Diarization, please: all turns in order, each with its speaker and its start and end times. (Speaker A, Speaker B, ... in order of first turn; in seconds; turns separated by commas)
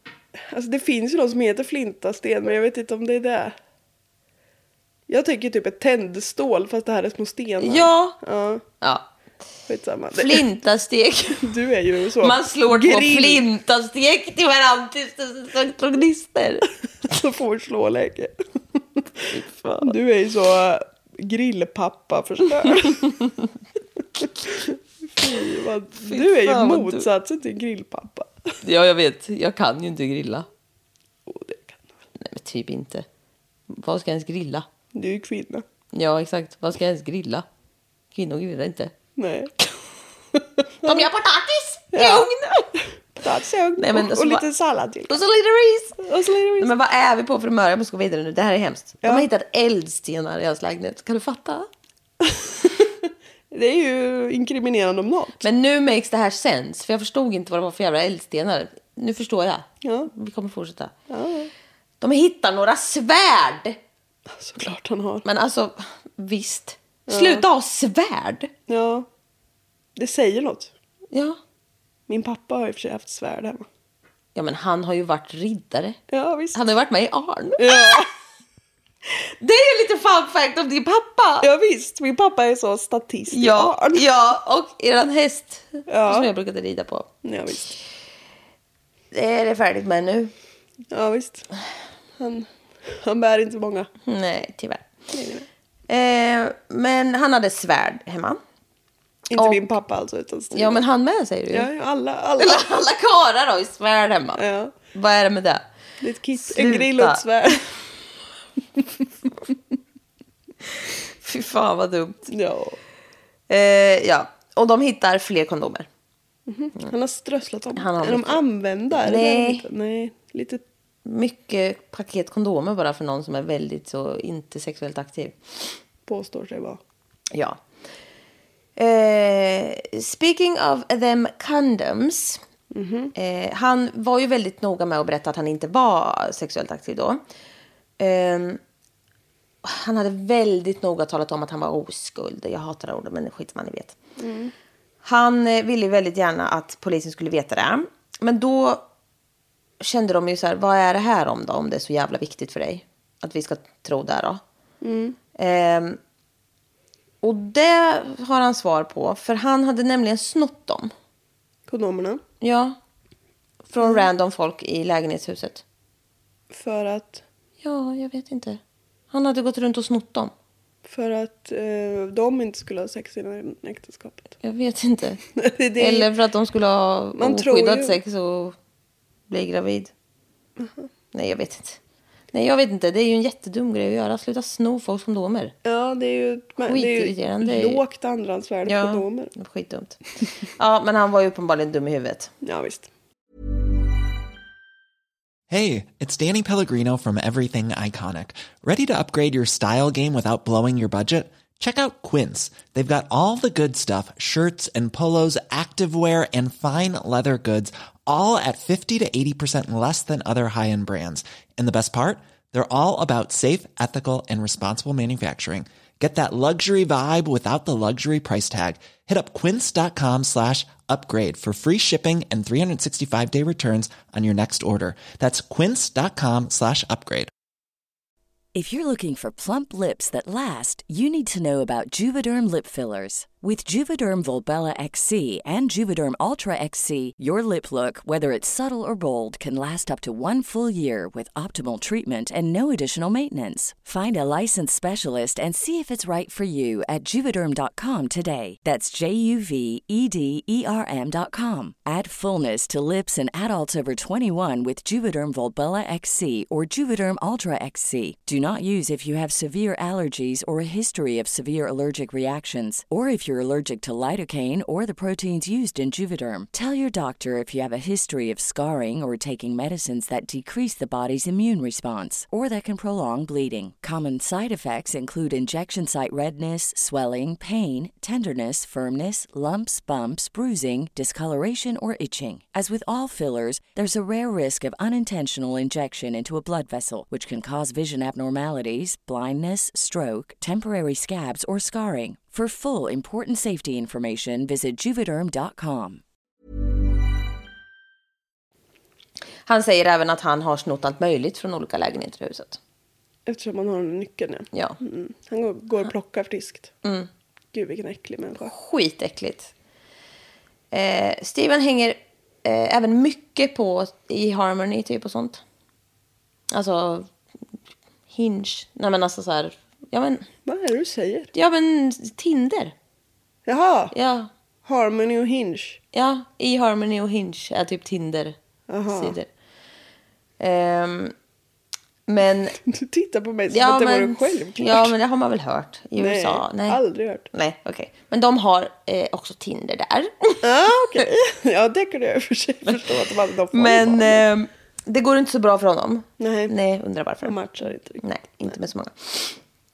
Speaker A: 0.5-3.5, Speaker A: 5.1-8.6, Speaker B: 7.6-8.2, Speaker B: 8.8-9.1, Speaker A: 9.7-10.4, Speaker B: 10.1-11.5, Speaker A: 11.4-13.4, Speaker B: 12.2-16.7, Speaker A: 17.0-19.1, Speaker B: 19.3-20.0, Speaker A: 19.8-23.3, Speaker A: 24.4-28.5, Speaker B: 26.0-27.1, Speaker B: 28.6-30.5, Speaker A: 31.2-31.9, Speaker B: 32.2-33.1, Speaker B: 33.7-34.7, Speaker A: 34.9-35.6, Speaker B: 35.9-37.5, Speaker B: 38.1-38.9, Speaker A: 39.2-39.5, Speaker B: 40.8-42.7, Speaker A: 41.9-45.2, Speaker B: 43.8-44.4, Speaker B: 45.1-46.1, Speaker A: 46.0-46.7, Speaker B: 46.6-51.7, Speaker A: 52.3-52.6, Speaker A: 53.5-55.4, Speaker B: 55.4-60.9, Speaker A: 59.8-60.1, Speaker A: 61.1-61.5, Speaker B: 62.0-63.8, Speaker A: 64.3-65.2, Speaker B: 65.2-68.5, Speaker A: 67.1-67.4, Speaker A: 68.7-69.1, Speaker A: 70.0-70.7, Speaker B: 71.1-71.4, Speaker A: 72.1-73.7, Speaker B: 74.3-76.0, Speaker A: 76.1-76.6, Speaker B: 76.5-78.1, Speaker A: 77.6-78.1, Speaker B: 79.2-81.5, Speaker A: 81.4-84.0, Speaker B: 83.3-87.1, Speaker A: 85.9-86.3, Speaker A: 87.2-87.8, Speaker B: 89.1-90.3, Speaker A: 90.9-91.5, Speaker A: 92.2-93.9, Speaker B: 94.0-94.9, Speaker A: 95.1-95.5, Speaker B: 95.9-98.4, Speaker A: 99.3-100.8, Speaker B: 99.3-99.6, Speaker B: 100.5-101.7, Speaker A: 101.5-102.6, Speaker B: 102.4-105.7, Speaker A: 104.4-104.7, Speaker A: 106.0-107.7, Speaker B: 106.4-107.2, Speaker B: 111.2-112.3, Speaker A: 112.3-112.8, Speaker B: 113.5-115.9, Speaker A: 116.5-120.6, Speaker B: 117.7-119.7, Speaker B: 121.0-125.4, Speaker A: 126.1-126.8, Speaker B: 127.3-127.6, Speaker B: 128.8-132.4, Speaker A: 132.7-133.1, Speaker B: 133.1-137.2, Speaker B: 138.0-138.6, Speaker B: 139.6-144.0, Speaker A: 144.2-144.5, Speaker B: 145.0-148.8, Speaker B: 149.8-154.4, Speaker A: 154.8-155.2, Speaker B: 155.3-156.0, Speaker B: 157.2-160.9, Speaker A: 161.7-162.2, Speaker B: 162.4-162.8, Speaker B: 163.7-165.6, Speaker A: 166.5-167.2, Speaker B: 167.6-168.6, Speaker B: 169.1-170.3, Speaker A: 170.8-174.3, Speaker B: 174.4-175.2, Speaker A: 175.3-176.1, Speaker B: 175.8-178.6, Speaker A: 177.2-177.9, Speaker B: 179.3-179.9, Speaker A: 180.6-180.9, Speaker B: 181.1-181.8, Speaker B: 182.3-185.5, Speaker A: 185.6-189.3, Speaker B: 186.6-187.8, Speaker B: 188.6-190.0, Speaker B: 190.6-192.3, Speaker A: 192.4-192.9, Speaker C: 195.5-227.3, Speaker D: 228.5-296.0, Speaker B: 299.4-302.6, Speaker A: 303.2-306.7, Speaker B: 306.8-307.1, Speaker A: 307.5-308.5, Speaker B: 308.4-309.5, Speaker B: 310.7-315.4, Speaker B: 316.5-317.1, Speaker B: 318.1-320.3, Speaker A: 320.4-321.3, Speaker B: 321.3-322.7, Speaker A: 323.4-323.9, Speaker B: 323.9-324.3, Speaker A: 324.6-325.8, Speaker B: 325.9-328.4, Speaker A: 328.7-329.1, Speaker B: 328.9-329.3, Speaker B: 330.4-331.1, Speaker B: 332.1-332.6, Speaker A: 332.7-334.9, Speaker B: 333.5-336.8, Speaker A: 336.0-337.3, Speaker B: 337.3-340.5, Speaker A: 340.4-344.2, Speaker B: 343.5-347.4, Speaker A: 346.2-346.5, Speaker A: 347.2-348.0, Speaker B: 348.0-349.4